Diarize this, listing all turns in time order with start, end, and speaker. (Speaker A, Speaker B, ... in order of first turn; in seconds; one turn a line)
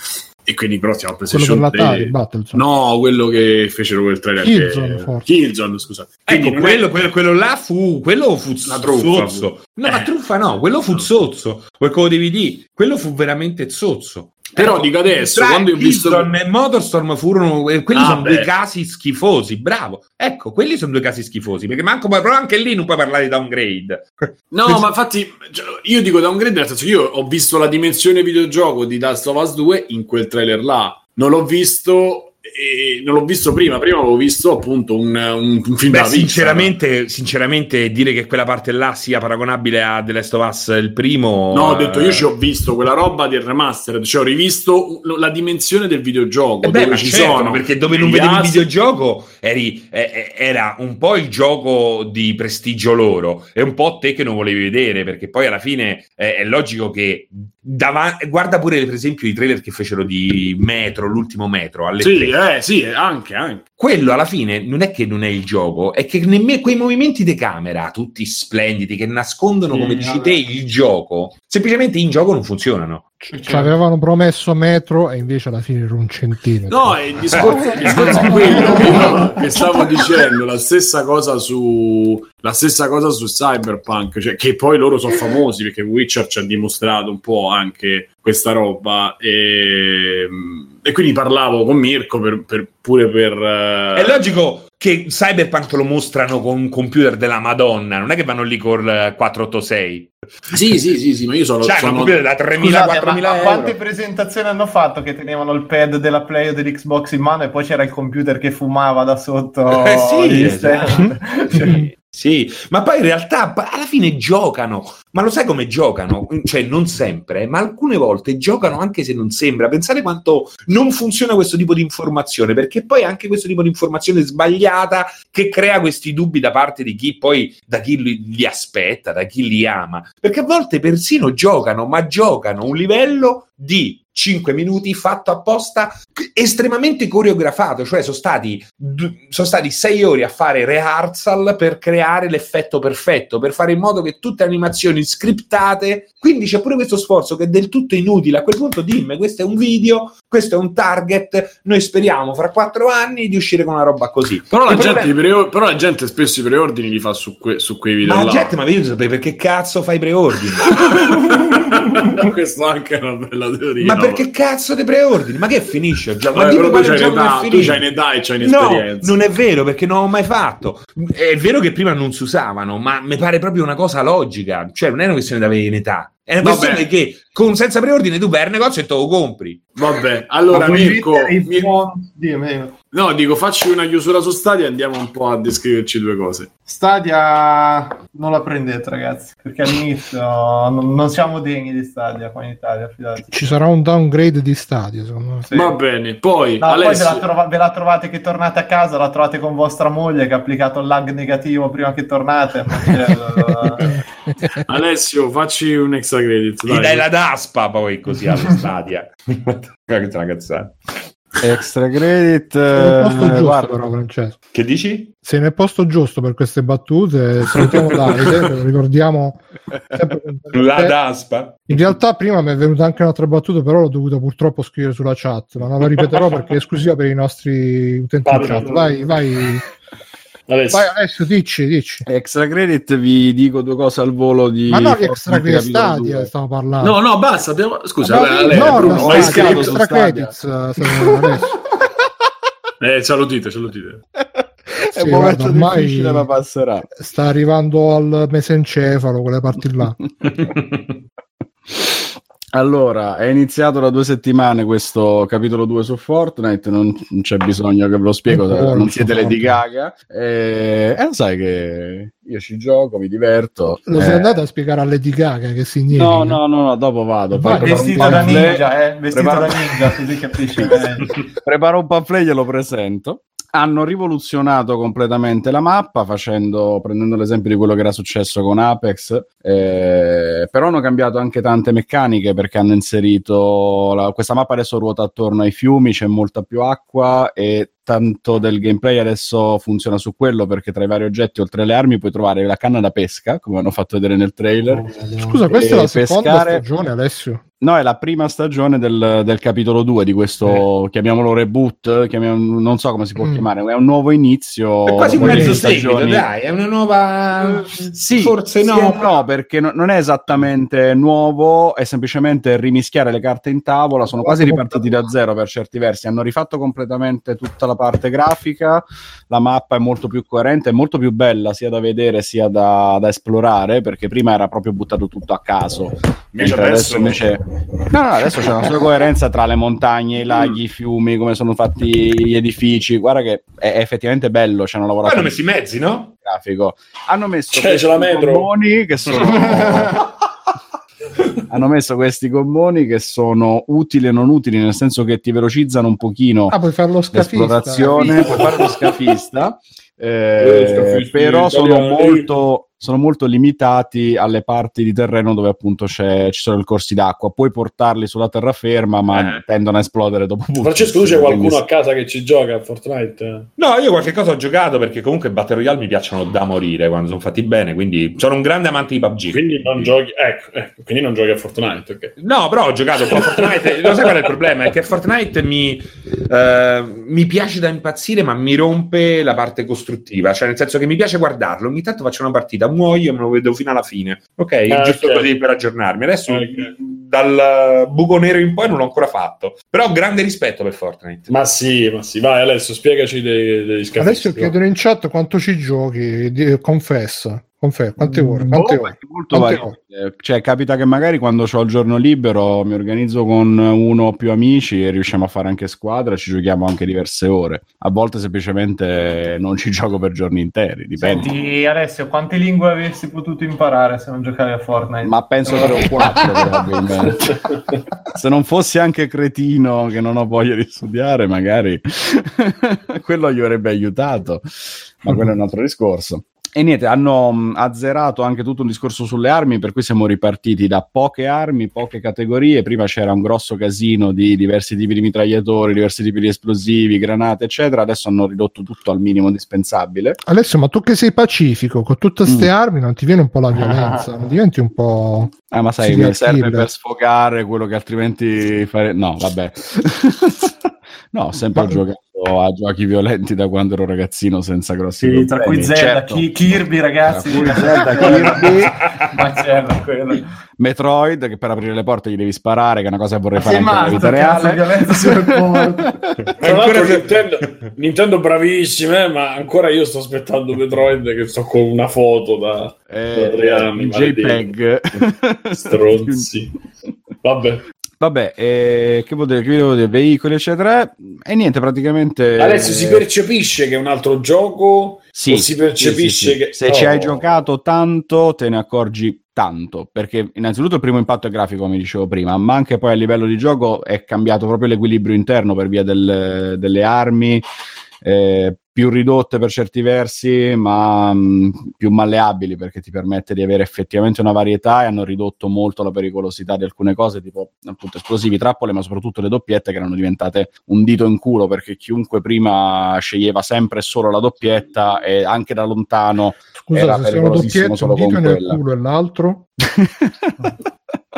Speaker A: 0.4-6.9
Speaker B: 1.3-2.6
Speaker B: 4.4-5.3
Speaker C: 6.3-24.9
Speaker A: 8.7-10.1
Speaker A: 14.5-16.3
Speaker A: 17.9-18.5
Speaker A: 24.5-36.7
Speaker C: 35.9-42.3
Speaker A: 41.5-48.6
Speaker C: 46.6-62.3
Speaker A: 62.0-63.6
Speaker C: 63.8-73.1
Speaker D: 69.7-70.4
Speaker B: 73.2-77.5
Speaker D: 73.3-73.7
Speaker A: 76.7-94.2
Speaker C: 77.3-78.1
Speaker D: 78.2-79.5
Speaker C: 93.9-100.1
Speaker A: 100.5-102.2
Speaker C: 101.6-103.8
Speaker D: 102.5-111.8
Speaker C: 109.7-155.1
Speaker B: 110.9-111.8
Speaker A: 154.5-158.6
Speaker C: 158.0-161.2
Speaker A: 160.7-164.2
Speaker C: 163.8-167.8
Speaker A: 166.3-169.1
Speaker C: 168.4-179.7
Speaker A: 176.4-176.8
Speaker A: 179.8-181.7
Speaker D: 180.5-182.7
Speaker A: 182.9-186.5
Speaker D: 186.7-193.5
Speaker B: 193.2-195.5
Speaker D: 195.4-195.7
Speaker A: 195.5-197.2
Speaker D: 196.6-204.0
Speaker B: 203.8-204.6
Speaker A: 204.7-207.1
Speaker C: 206.6-211.0
Speaker E: 211.4-213.7
Speaker B: 212.7-214.4
Speaker C: 214.5-215.1
Speaker B: 215.2-221.0
Speaker C: 220.5-221.8
Speaker B: 221.7-229.6
Speaker A: 228.2-228.9
Speaker A: 230.5-230.9
Speaker B: 230.7-232.1
Speaker E: 232.1-236.3
Speaker B: 234.7-237.0
Speaker A: 236.8-239.8
Speaker B: 238.1-241.5
Speaker E: 238.1-240.3
Speaker A: 242.8-244.0
Speaker E: 244.8-246.9
Speaker B: 244.9-246.3
Speaker B: 246.9-250.0
Speaker E: 252.5-264.3
Speaker B: 258.3-259.6
Speaker B: 263.9-266.4
Speaker E: 265.9-269.8
Speaker B: 267.3-268.6
Speaker D: 267.5-271.2
Speaker E: 271.4-294.9
Speaker D: 294.7-295.4
Speaker B: 295.2-297.4
Speaker E: 295.5-296.6
Speaker E: 297.6-306.3
Speaker B: 303.2-303.5
Speaker C: 304.9-309.1
Speaker B: 305.2-305.6
Speaker E: 307.7-335.4
Speaker A: 326.3-327.3
Speaker C: 335.0-336.1
Speaker E: 336.2-340.0
Speaker A: 337.5-338.5
Speaker D: 339.6-339.9
Speaker E: 341.5-346.6
Speaker B: 346.5-348.2
Speaker E: 347.1-361.6
Speaker D: 347.9-348.4
Speaker A: 350.4-352.3
Speaker C: 359.1-359.4
Speaker A: 360.6-363.5
Speaker C: 363.6-369.9
Speaker A: 369.3-372.1
Speaker C: 372.2-391.3
Speaker A: 373.1-374.3
Speaker A: 384.7-385.3
Speaker A: 386.3-386.7
Speaker A: 391.3-394.5
Speaker B: 394.0-399.8
Speaker E: 398.0-411.3
Speaker D: 411.0-416.5
Speaker E: 415.0-417.2
Speaker A: 417.2-417.8
Speaker E: 418.1-424.4
Speaker E: 425.0-440.2
Speaker B: 440.2-446.7
Speaker D: 443.6-444.0
Speaker E: 445.5-450.5
Speaker E: 451.1-456.3
Speaker D: 455.0-460.3
Speaker E: 457.1-458.7
Speaker C: 458.0-459.1
Speaker E: 460.6-466.1
Speaker D: 463.3-465.9
Speaker C: 466.4-467.7
Speaker A: 466.4-474.5
Speaker E: 472.9-476.5
Speaker A: 475.6-476.5
Speaker A: 477.2-477.6
Speaker E: 478.0-483.1
Speaker A: 482.4-487.3
Speaker E: 485.1-497.4
Speaker E: 498.0-518.6
Speaker B: 516.5-519.5
Speaker E: 519.8-520.5